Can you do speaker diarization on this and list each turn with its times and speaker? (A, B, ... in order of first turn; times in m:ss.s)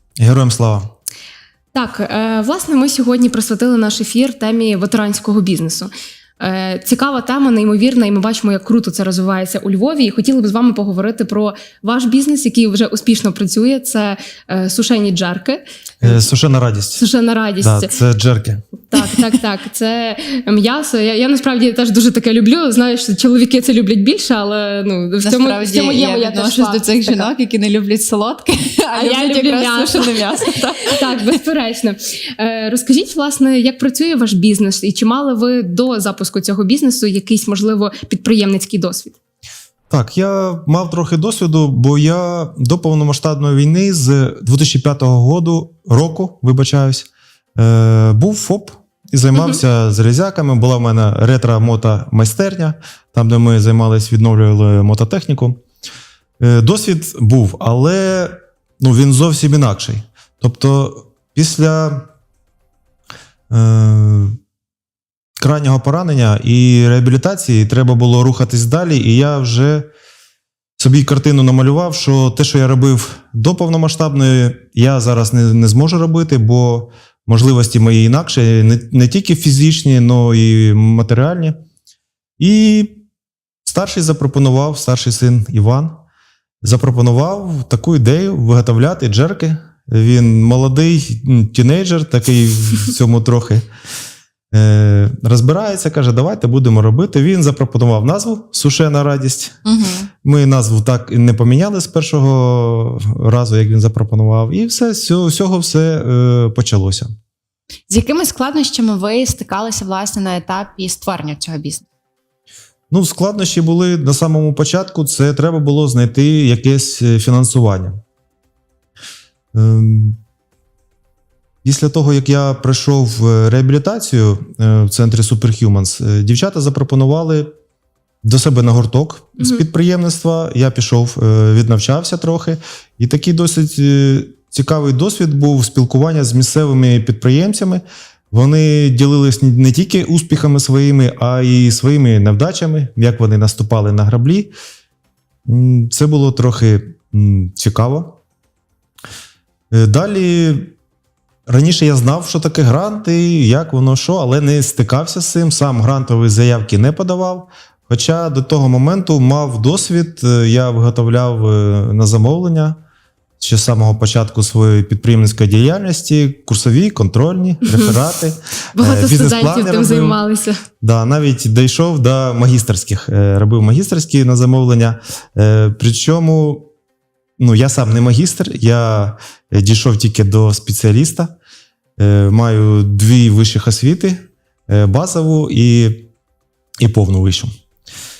0:00.2-0:00.9 A
0:01.7-0:16.3 B
0:16.0-0:17.0 A
0:16.9-0:17.9 B
0:17.6-0:18.6 A
0:18.9-0:27.3 B
0:25.2-0:31.0 C
0:28.9-0:30.2 B
0:30.9-0:39.2 B
0:39.9-0:55.6 A
0:56.4-1:02.1 A
1:03.5-1:04.4 A
1:05.4-1:09.9 A
1:10.8-1:21.6 A
1:22.4-1:23.0 A
1:23.6-1:26.0 A
1:26.6-1:33.6 A
1:34.5-1:39.6 A
1:39.6-1:40.1 C
1:40.2-1:47.1 A
1:47.9-1:51.8 C
1:52.9-1:58.0 A
1:59.5-2:00.2 A
2:01.6-2:07.5 A
2:08.2-2:24.5 A
2:25.4-2:28.2 A
2:29.7-2:30.7 A
2:31.5-2:42.8 A
2:43.4-2:50.2 A
2:47.7-2:48.0 B
2:48.7-2:50.6 B
2:50.8-2:56.7 A
2:57.4-3:01.4 A
3:02.0-3:06.1 A
3:06.8-3:07.5 A